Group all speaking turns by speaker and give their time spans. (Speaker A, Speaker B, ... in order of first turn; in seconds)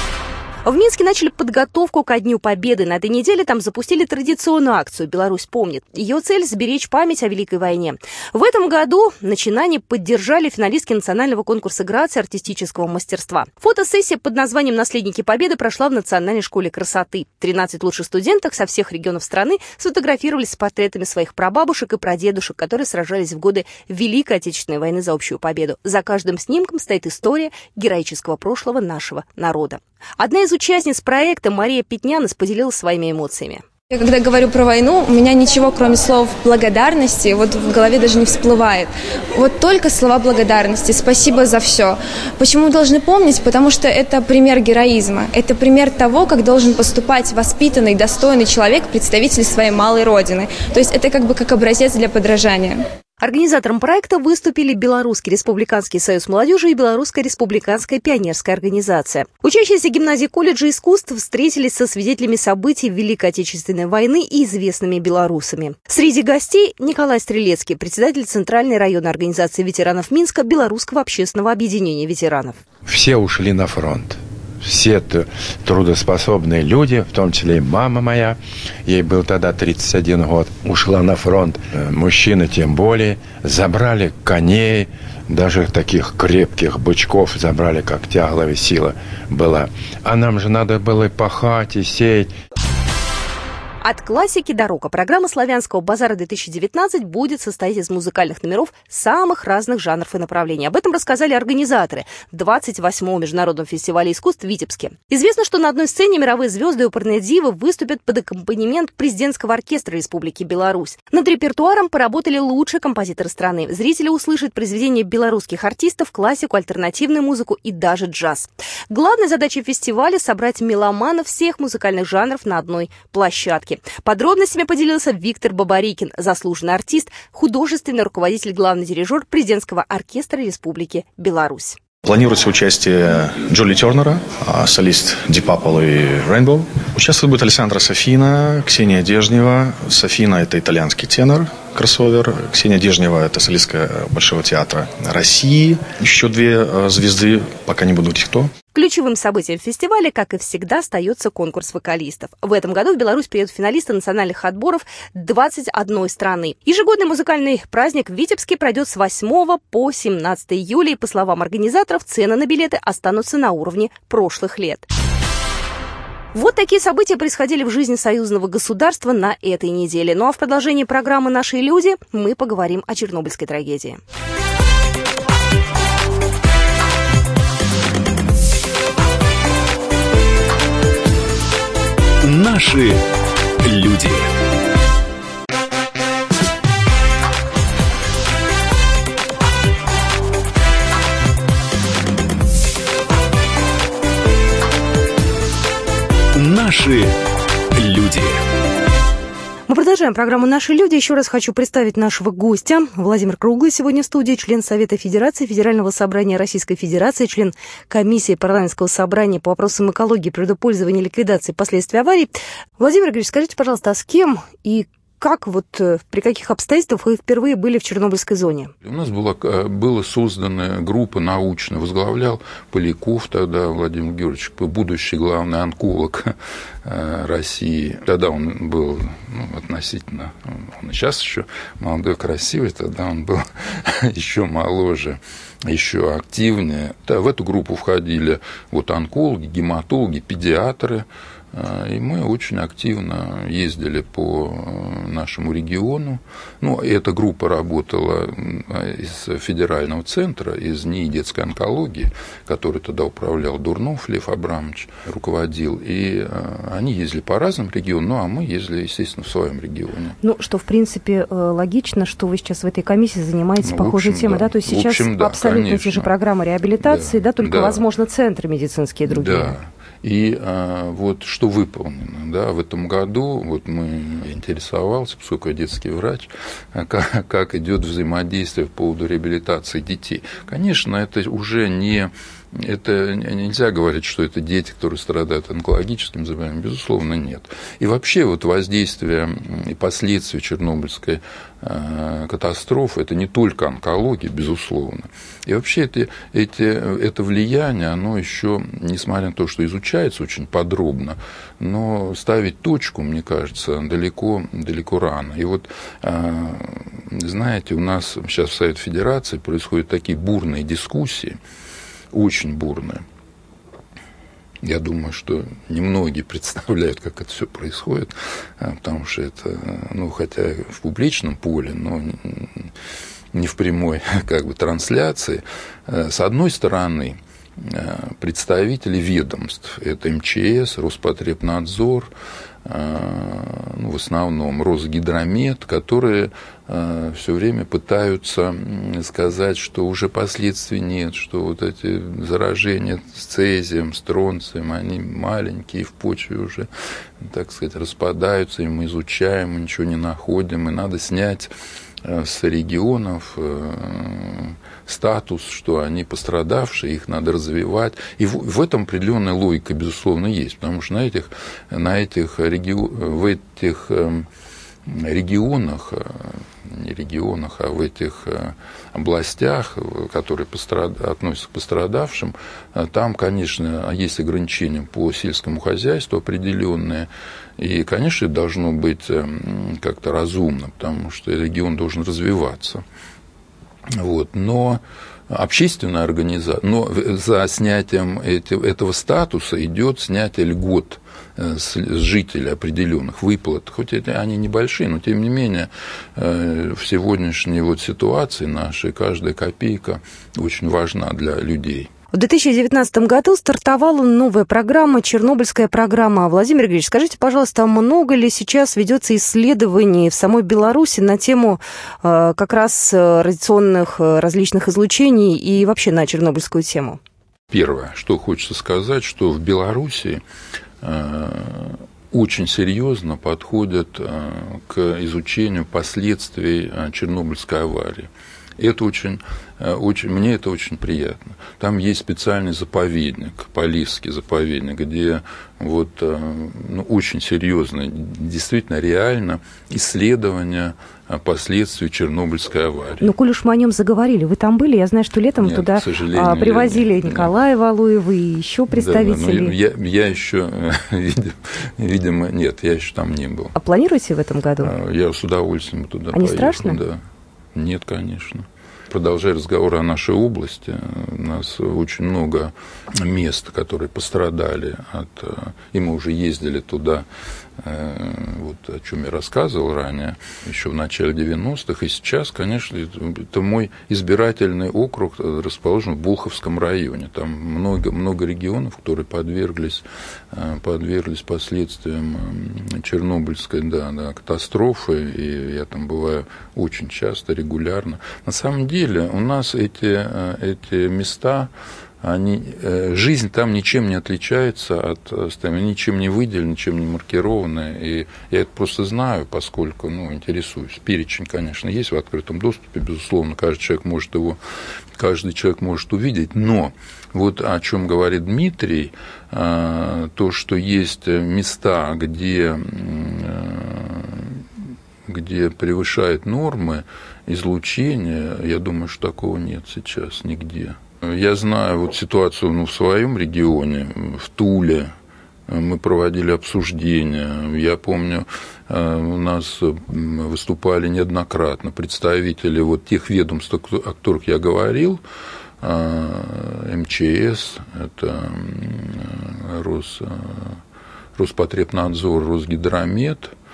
Speaker A: 0.7-33.6, 53.2-72.6, 93.8-131.8, 148.7-164.9, 166.3-174.0, 199.7-218.7, 260.2-269.6, 402.1-417.0, 443.0-449.5, 453.6-454.7, 456.1-456.8
Speaker B: 33.9-52.8
Speaker C: 72.8-92.3
Speaker D: 132.0-148.5
Speaker E: 182.2-183.0, 183.6-184.3, 196.3-197.1, 197.8-198.4
Speaker F: 218.8-260.2, 263.6-266.1, 266.8-267.8, 269.1-311.4, 312.1-313.0, 314.6-322.7, 323.3-332.1, 332.6-346.7, 347.2-351.5, 352.0-364.3, 364.9-382.8, 383.9-401.9, 417.5-420.2, 420.8-443.1, 445.4-447.3, 448.7-453.6, 454.6-457.0, 457.6-467.1, 467.6-491.5, 492.0-504.4, 505.0-514.5, 515.1-524.9, 525.5-535.0, 535.6-540.6, 541.2-543.3